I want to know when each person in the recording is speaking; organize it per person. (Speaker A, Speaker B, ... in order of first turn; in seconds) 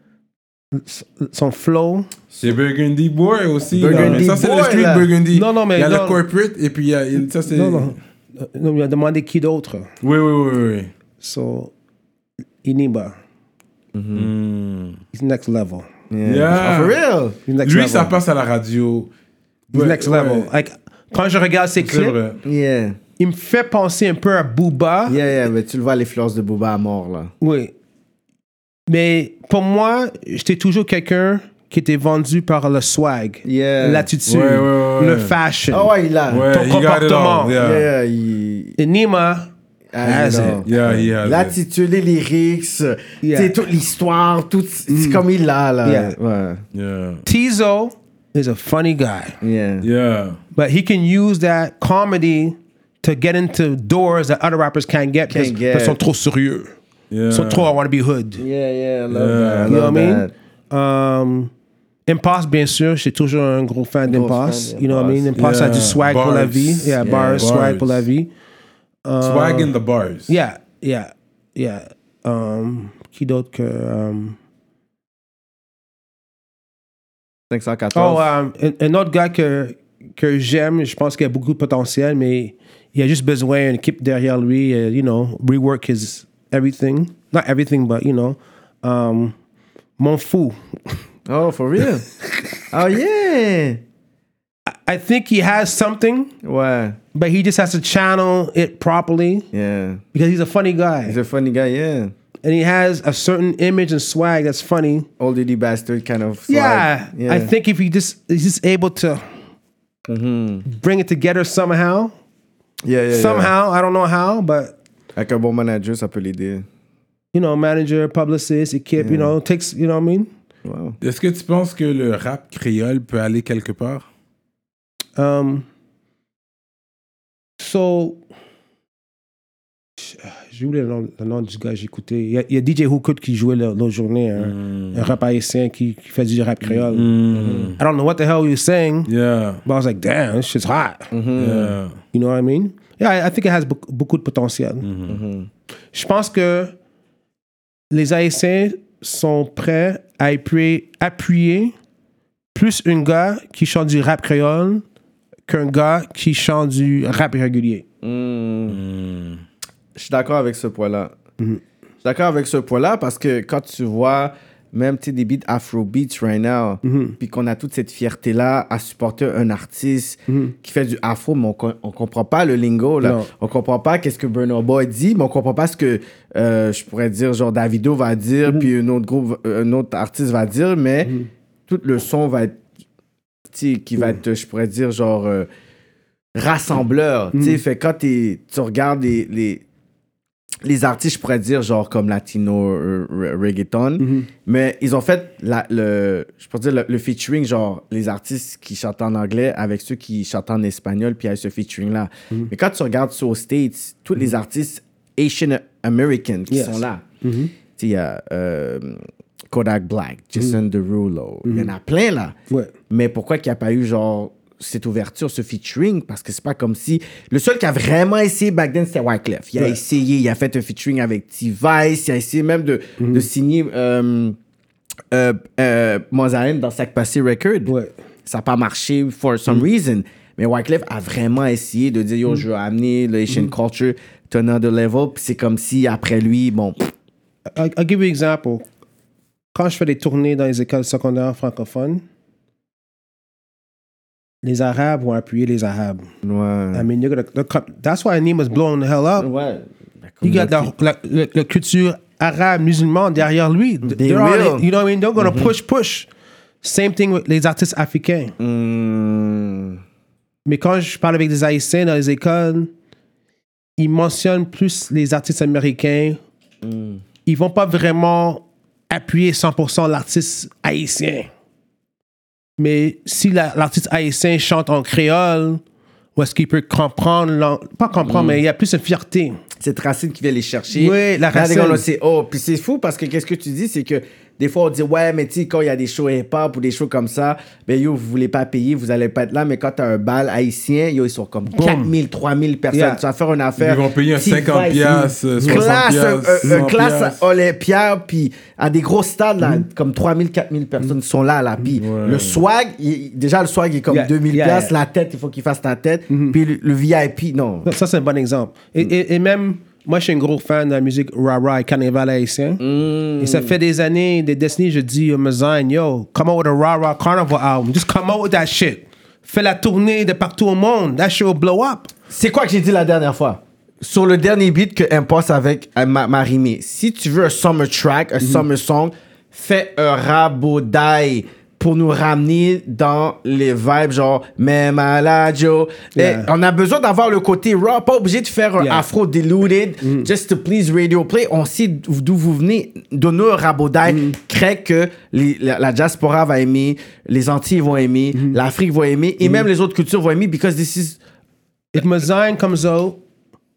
Speaker A: 0.7-2.1, 3.8-4.3, 5.3-6.2, 7.5-9.9, 11.2-11.7, 12.6-13.2, 15.1-15.9, 17.5-18.2, 19.7-22.1, 23.2-25.2, 27.4-27.7, 28.9-35.9, 36.5-37.6, 38.8-40.6, 43.2-43.6, 44.9-45.2, 45.8-46.2, 47.2-49.4, 50.5-56.8, 57.3-58.4, 59.7-61.5, 62.1-68.3, 69.0-69.7, 70.3-74.4, 77.9-89.3, 90.0-91.0, 94.7-96.3, 97.1-99.5, 100.1-101.2, 102.4-105.1, 106.5-109.2, 110.7-112.1, 113.1-114.8, 117.3-120.3, 125.2-125.7, 127.6-128.2, 130.0-137.1, 137.8-139.1, 139.7-141.1, 142.1-144.9, 145.9-146.7, 147.9-151.7, 152.6-154.8, 155.5-157.8, 166.8-167.2, 170.3-170.6, 173.0-173.3, 187.3-187.6, 194.0-194.3, 206.5-207.5, 211.4-211.7, 223.0-223.3, 227.7-227.9, 237.6-238.7, 239.6-242.0, 244.4-246.1, 246.7-249.3, 250.2-256.1, 256.6-258.4, 260.5-262.7, 263.8-266.2, 267.3-271.3, 272.6-275.6, 276.2-279.4, 280.7-281.8, 291.5-291.9, 292.7-293.0, 295.4-295.7, 303.9-304.7, 306.1-306.4, 307.6-312.6, 313.2-321.9, 335.9-336.3, 338.6-338.9, 339.8-340.1, 343.9-344.2, 351.7-353.0
Speaker B: 2.4-8.0, 10.0-10.9, 14.2-15.0, 16.2-17.0, 17.6-19.1, 19.7-20.5, 21.8-22.4, 34.3-35.4, 36.3-37.9, 40.6-41.6, 46.7-47.2, 49.8-50.4, 57.1-57.7, 59.1-59.8, 65.4-68.1, 69.2-70.3, 121.0-124.1, 134.4-135.1, 136.8-137.8, 139.1-139.6, 141.4-142.0, 144.8-145.2, 158.7-159.4, 293.6-297.2, 301.8-302.4
Speaker C: 3.8-5.1, 13.9-14.3, 16.1-17.4, 22.4-23.0, 25.1-27.3, 33.4-34.1, 35.7-36.5, 37.5-38.8, 39.9-46.6, 49.4-49.9, 55.3-56.0, 58.4-60.3, 64.1-65.3, 67.0-67.5, 77.5-78.3, 91.3-92.1, 92.7-93.8, 96.4-97.0, 99.5-100.0, 101.0-102.1, 105.2-107.5, 110.1-110.7, 112.8-113.5, 115.2-116.7, 119.0-119.3, 120.7-121.0, 137.3-137.8, 141.1-141.8, 145.1-145.5, 158.0-158.8, 160.0-161.1, 162.0-181.1, 181.7-182.6, 183.5-185.5, 186.4-189.6, 190.6-207.0, 207.8-212.3, 212.9-224.4, 225.1-227.7, 228.3-236.9, 246.2-246.9, 249.2-250.7, 253.9-255.5, 258.4-259.8, 266.6-267.0, 278.1-278.4, 279.6-307.7, 312.6-313.6, 322.1-351.0